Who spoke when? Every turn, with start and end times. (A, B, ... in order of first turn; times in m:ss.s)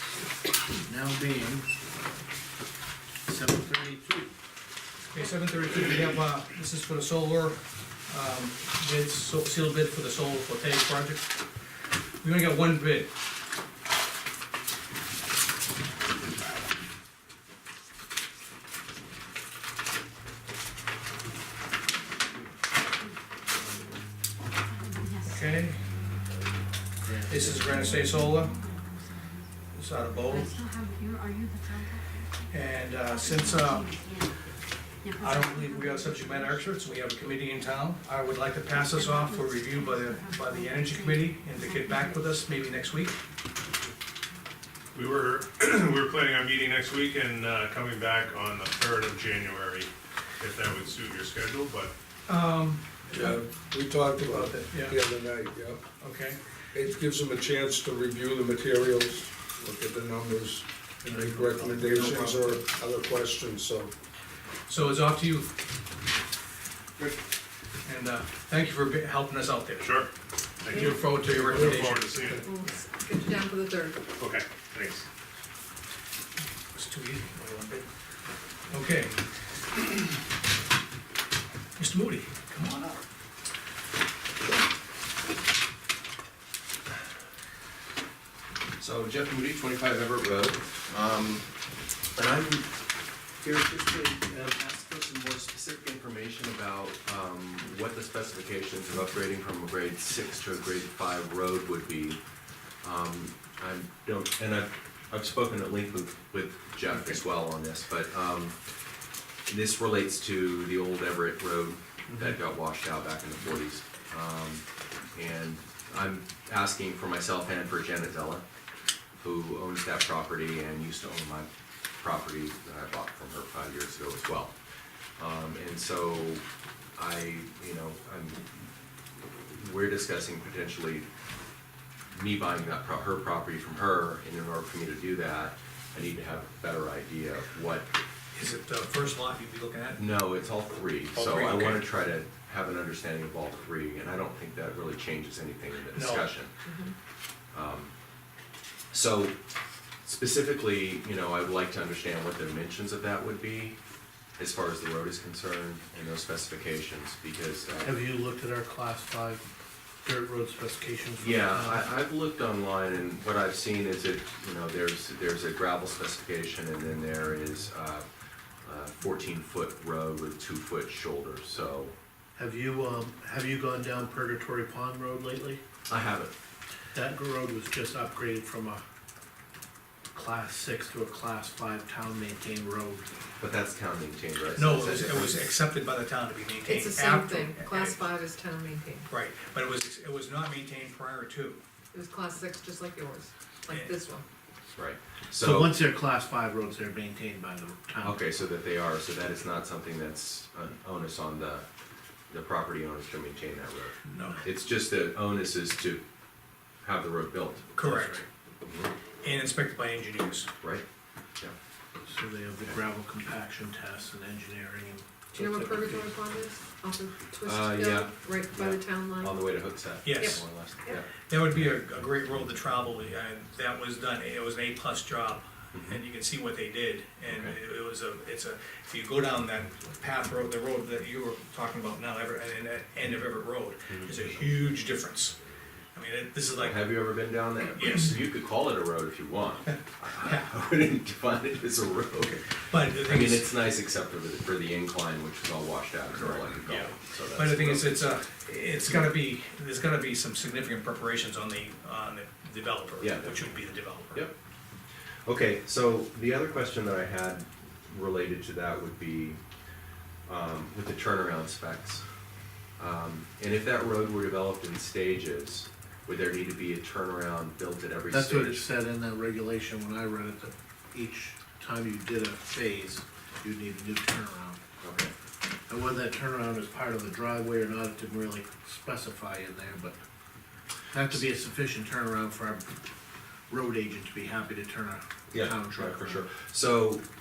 0:00.8-0:01.7 A
0:03.2-0:04.3 A
0:05.1-0:11.3 B
0:12.2-0:13.1 B
0:22.9-0:23.2 C
0:24.5-0:26.2 C
0:25.2-0:25.8 B
0:27.0-0:27.9 A
0:27.3-0:28.6 B
0:27.5-0:29.5 C
0:29.7-0:30.6 B
0:30.2-0:36.9 C
0:32.5-0:34.0 B
0:35.2-0:43.2 B
0:38.5-0:43.1 C
0:44.9-0:51.9 D
0:52.3-0:53.4 B
0:53.1-0:55.8 E
0:54.2-0:55.0 B
0:56.0-0:56.4 B
0:56.7-1:03.9 E
1:01.1-1:02.2 A
1:01.8-1:02.5 B
1:04.7-1:05.5 B
1:07.8-1:09.9 B
1:09.8-1:10.1 D
1:10.6-1:12.4 D
1:10.7-1:11.0 F
1:10.7-1:12.5 B
1:12.4-1:14.0 F
1:14.2-1:15.0 D
1:16.7-1:17.8 B
1:18.7-1:19.2 B
1:21.8-1:23.0 B
1:28.8-1:31.4 G
1:32.2-1:32.7 G
1:33.4-1:42.2 G
1:42.8-1:48.6 G
1:49.5-1:58.4 G
1:59.2-2:01.5 G
2:02.0-2:04.5 G
2:05.2-2:06.4 G
2:07.0-2:08.4 G
2:09.5-2:11.1 G
2:12.1-2:17.9 G
2:18.3-2:20.0 B
2:20.0-2:26.5 G
2:21.1-2:21.8 B
2:25.9-2:26.3 B
2:26.6-2:26.9 F
2:27.5-2:27.9 G
2:28.9-2:29.4 G
2:30.0-2:33.8 G
2:34.4-2:38.0 G
2:37.8-2:39.4 A
2:40.0-2:41.9 A
2:41.2-2:48.0 G
2:48.6-2:51.9 G
2:52.4-2:55.6 A
2:55.9-2:56.3 G
2:56.9-2:58.8 A
3:00.1-3:03.0 A
3:03.4-3:05.5 G
3:04.6-3:08.0 B
3:06.6-3:09.0 F
3:09.1-3:11.6 B
3:11.9-3:14.2 F
3:14.7-3:15.8 G
3:15.4-3:18.2 A
3:18.0-3:21.6 G
3:22.3-3:26.0 G
3:24.0-3:24.4 B
3:26.8-3:28.9 G
3:27.7-3:28.2 B
3:29.2-3:30.5 B
3:32.0-3:35.1 A
3:35.3-3:39.3 F
3:35.4-3:36.0 G
3:37.4-3:41.8 G
3:40.0-3:40.4 B
3:40.2-3:41.0 F
3:41.3-3:55.3 B
3:45.7-3:46.0 G
3:47.3-3:47.6 G
3:53.9-3:54.2 G
3:55.9-3:57.1 B
3:56.5-4:08.2 G
3:57.7-3:58.2 B
4:00.2-4:00.5 B
4:02.6-4:03.5 B
4:06.6-4:14.3 B
4:13.0-4:13.4 G
4:15.2-4:19.4 G
4:20.2-4:22.0 G
4:22.8-4:28.6 G
4:28.1-4:34.6 A
4:34.8-4:35.1 G
4:35.7-4:40.0 A
4:40.9-4:42.7 A
4:43.5-4:46.2 A
4:45.3-4:47.0 G